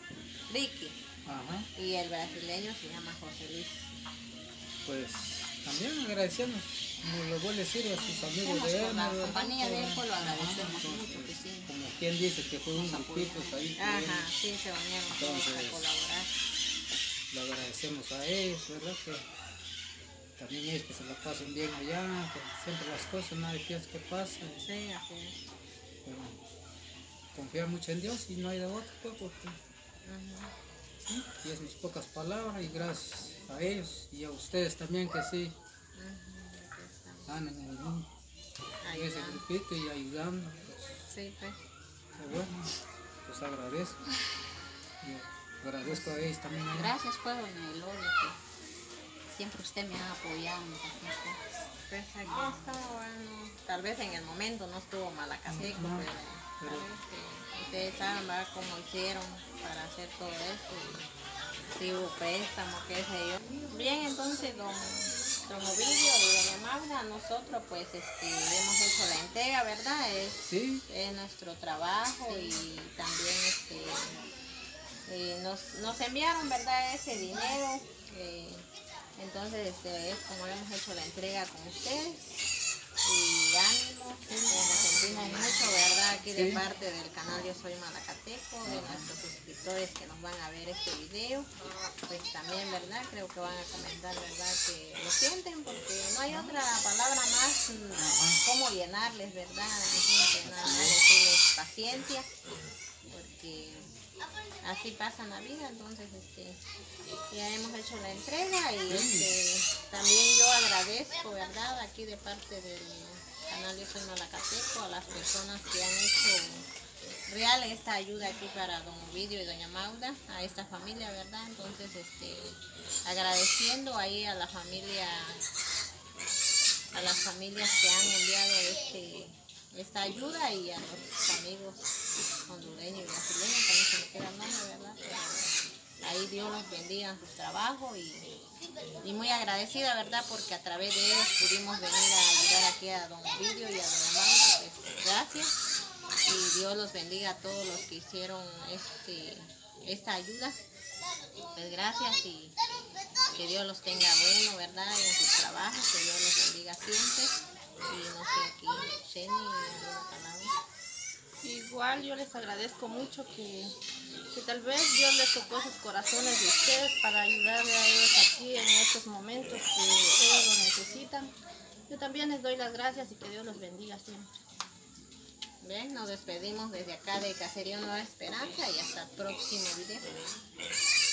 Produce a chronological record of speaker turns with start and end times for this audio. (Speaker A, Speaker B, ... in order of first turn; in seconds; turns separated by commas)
Speaker A: 0.5-1.0, Speaker B: 1.3-1.7, Speaker A: 1.8-4.0, Speaker B: 4.8-14.3, Speaker A: 8.0-9.6, Speaker C: 9.2-11.7, Speaker C: 12.8-13.7, Speaker A: 13.8-16.3, Speaker B: 15.1-15.9, Speaker B: 17.3-19.3, Speaker B: 20.4-24.6, Speaker A: 24.6-25.4, Speaker B: 26.1-26.4, Speaker B: 27.3-29.6, Speaker A: 30.0-30.5, Speaker B: 31.0-35.6, Speaker A: 35.9-37.3, Speaker B: 37.3-38.1, Speaker A: 38.8-39.4, Speaker B: 38.9-41.1, Speaker A: 41.1-41.6, Speaker B: 42.2-42.7, Speaker B: 43.2-44.0, Speaker B: 45.0-46.9, Speaker A: 45.8-46.3, Speaker C: 46.7-48.4, Speaker C: 49.3-51.4, Speaker A: 51.9-61.1, Speaker B: 55.5-56.9, Speaker A: 61.7-74.3, Speaker B: 70.4-70.8, Speaker A: 75.1-78.7, Speaker A: 79.2-82.5, Speaker A: 83.0-91.5, Speaker B: 84.3-85.8, Speaker B: 86.3-86.6, Speaker B: 88.7-89.1, Speaker A: 92.1-102.3, Speaker B: 98.0-98.4, Speaker B: 100.5-101.0, Speaker A: 103.1-103.9, Speaker A: 104.6-106.6, Speaker A: 107.3-116.7, Speaker B: 108.9-109.3, Speaker A: 117.3-125.4, Speaker A: 126.9-131.8, Speaker A: 132.5-138.5, Speaker A: 139.0-145.6, Speaker A: 146.2-150.6, Speaker A: 151.5-152.6, Speaker A: 153.3-160.5, Speaker D: 161.4-163.7, Speaker D: 164.3-171.3, Speaker D: 171.9-174.3, Speaker A: 175.6-180.2